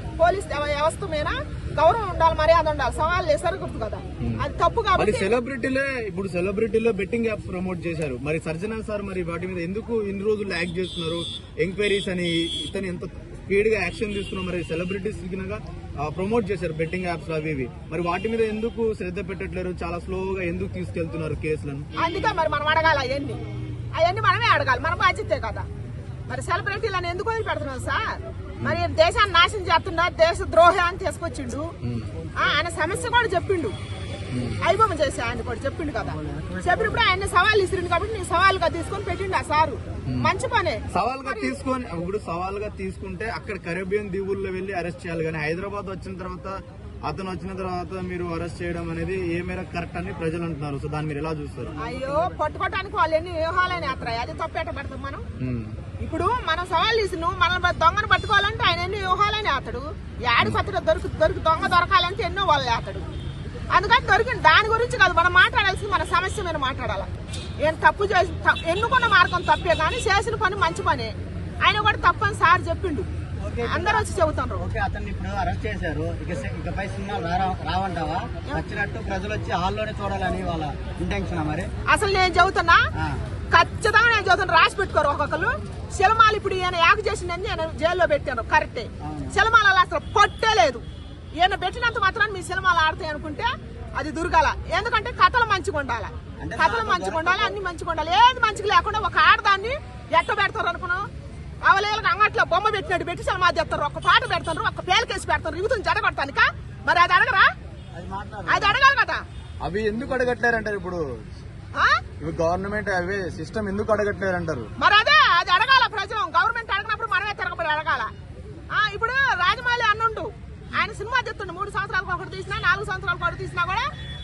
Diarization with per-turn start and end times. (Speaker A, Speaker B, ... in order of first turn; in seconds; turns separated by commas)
Speaker A: 0.2-5.4, Speaker B: 5.0-21.9, Speaker A: 22.0-23.4, Speaker A: 23.9-25.6, Speaker A: 26.3-31.7, Speaker B: 31.8-32.1, Speaker A: 32.4-33.7, Speaker B: 34.3-34.6, Speaker A: 34.6-41.5, Speaker C: 36.2-37.0, Speaker B: 40.9-51.8, Speaker A: 51.8-55.2, Speaker B: 55.4-55.7, Speaker A: 56.0-63.0, Speaker A: 63.7-67.1, Speaker A: 67.6-73.1, Speaker C: 73.4-74.0, Speaker A: 73.6-74.7, Speaker C: 74.6-81.7, Speaker A: 81.9-82.8, Speaker A: 83.5-90.8, Speaker C: 89.0-89.4, Speaker A: 91.4-101.0, Speaker B: 96.4-97.5, Speaker A: 101.7-107.5, Speaker B: 108.0-108.8, Speaker C: 108.1-108.7, Speaker A: 108.5-109.2, Speaker B: 109.6-111.0, Speaker A: 111.8-112.0, Speaker B: 112.2-114.7, Speaker A: 114.8-118.1, Speaker A: 118.7-123.9